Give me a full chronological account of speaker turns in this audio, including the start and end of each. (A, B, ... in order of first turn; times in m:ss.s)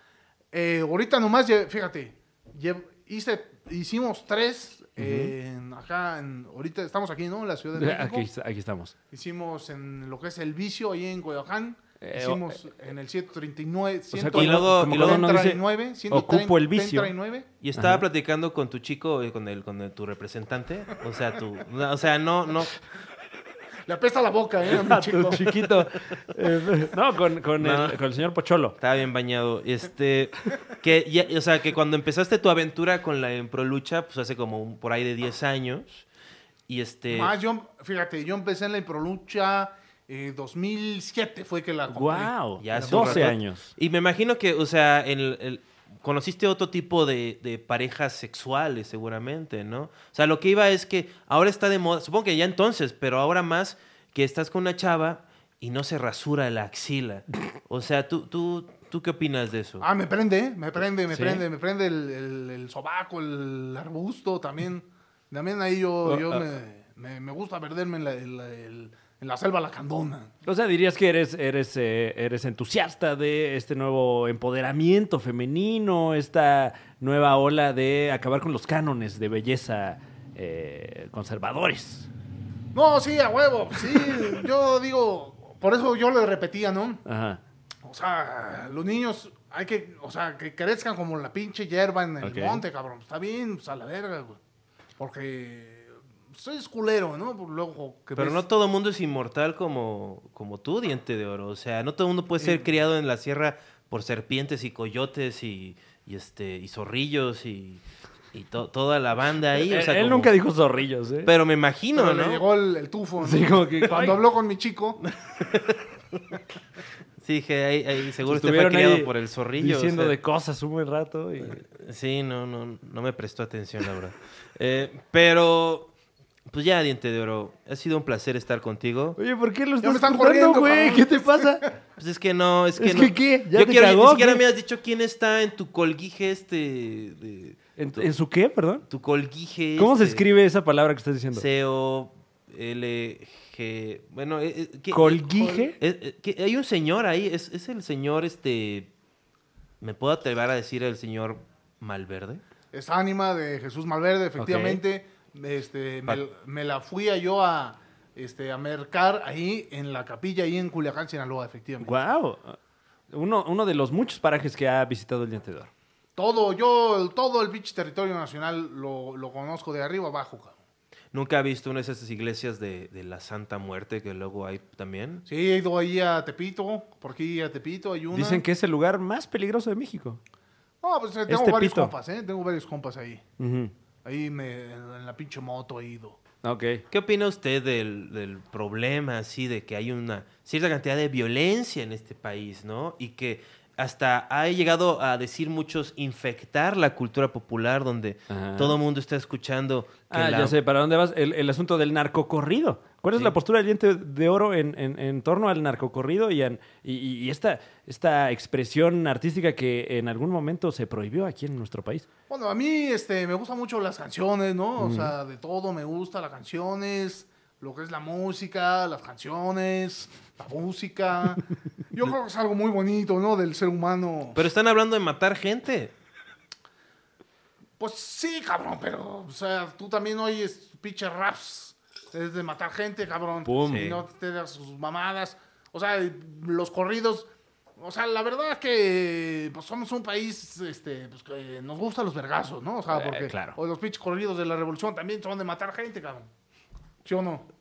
0:00.5-0:08.3 A
0:05.0-0:05.3 B
0:07.8-0:08.9 B
0:09.1-0:17.5 A
0:12.0-0:12.6 B
0:14.1-0:17.1 B
0:14.3-0:15.3 C
0:17.6-0:22.7 C
0:17.8-0:18.0 B
0:23.8-0:25.8 A
0:24.7-0:28.8 B
0:27.6-0:28.0 C
0:28.8-0:36.0 C
0:36.7-0:37.3 C
0:37.1-0:43.4 A
0:41.9-0:43.7 B
0:42.6-0:59.8 C
0:59.8-1:10.3 A
1:01.1-1:01.4 B
1:06.0-1:06.4 B
1:10.4-1:22.1 B
1:22.7-1:27.0 A
1:27.0-1:27.4 B
1:27.8-1:34.4 A
1:32.2-1:32.6 B
1:35.0-1:38.4 A
1:38.2-1:50.4 C
1:42.4-1:42.7 A
1:49.7-1:51.3 B
1:51.2-1:52.4 C
1:51.9-1:55.0 A
1:53.2-1:54.2 B
1:55.0-1:56.4 C
1:57.2-2:00.1 C
1:58.2-2:01.6 B
2:01.7-2:05.9 C
2:06.5-2:09.2 C
2:09.2-2:11.7 B
2:09.8-2:11.7 A
2:12.0-2:18.1 C
2:12.8-2:14.4 B
2:17.8-2:18.8 B
2:18.9-2:20.2 C
2:19.8-2:21.5 B
2:21.3-2:28.9 C
2:24.9-2:25.8 B
2:25.4-2:25.7 A
2:29.8-2:32.4 C
2:32.7-2:42.0 A
2:34.4-2:34.8 B
2:41.8-2:42.6 B
2:43.1-2:45.7 B
2:46.2-2:50.6 A
2:51.1-2:55.2 C
2:55.2-2:58.4 A
2:58.1-3:00.2 B
3:00.8-3:03.2 A
3:01.3-3:01.9 B
3:03.4-3:03.7 B
3:04.0-3:06.2 A
3:06.4-3:06.8 B
3:06.9-3:20.6 C
3:18.3-3:18.8 B
3:20.1-3:32.1 B
3:32.3-3:44.4 A
3:34.8-3:35.1 B
3:44.4-3:45.9 C
3:47.8-4:06.3 A
3:53.4-3:53.9 B
3:53.7-3:54.0 C
4:02.9-4:03.6 B
4:07.0-4:07.5 A